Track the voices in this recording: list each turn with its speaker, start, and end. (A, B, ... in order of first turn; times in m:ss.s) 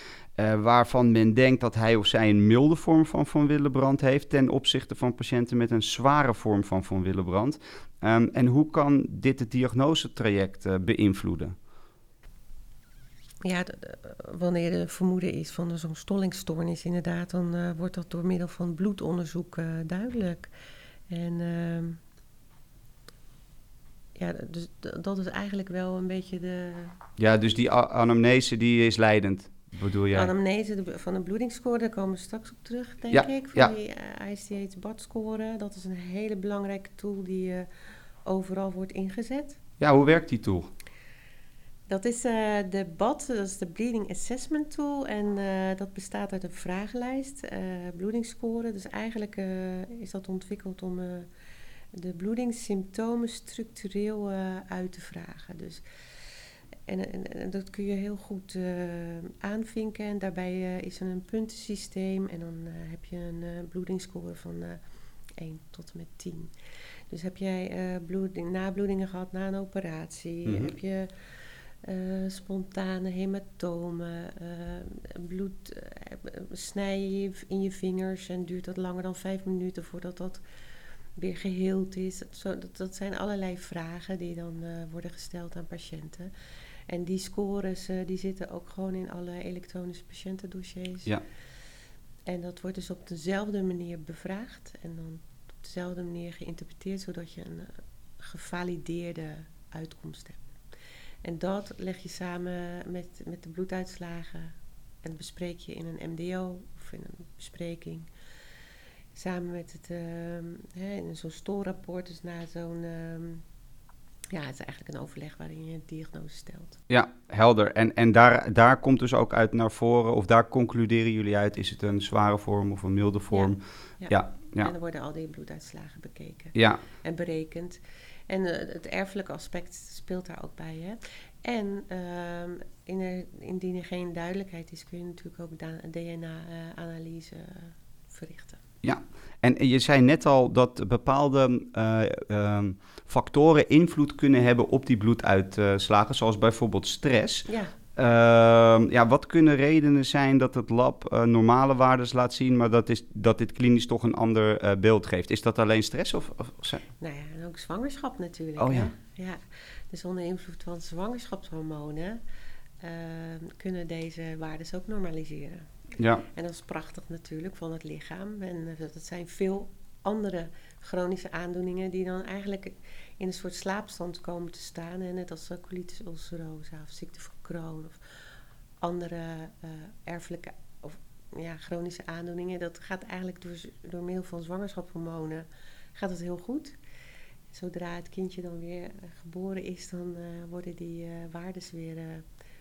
0:00.4-0:11.6 A
0:13.4-0:20.5 B
0:21.1-0:22.0 B
0:24.1-0:27.0 B
0:27.2-0:30.3 A
0:30.1-0:37.7 B
0:33.1-0:33.7 A
0:38.2-0:39.6 B
0:39.8-0:40.7 A
0:41.9-0:51.3 B
0:51.9-0:55.8 B
0:56.9-1:04.8 B
1:05.4-1:06.5 B
1:07.1-1:20.4 B
1:10.4-1:10.7 A
1:21.2-1:26.3 B
1:26.9-1:31.1 B
1:32.2-1:40.4 B
1:41.2-1:48.1 B
1:49.1-1:53.4 B
1:54.3-1:56.8 B
1:56.9-2:04.7 A
2:03.3-2:18.6 B
2:06.5-2:06.8 A
2:18.8-2:36.8 A
2:27.5-2:27.7 B
2:37.0-2:42.2 B
2:38.6-2:38.9 A
2:42.8-2:45.7 B
2:46.0-2:46.2 A
2:46.3-2:58.0 B
2:58.8-3:06.8 B
3:07.5-3:12.2 B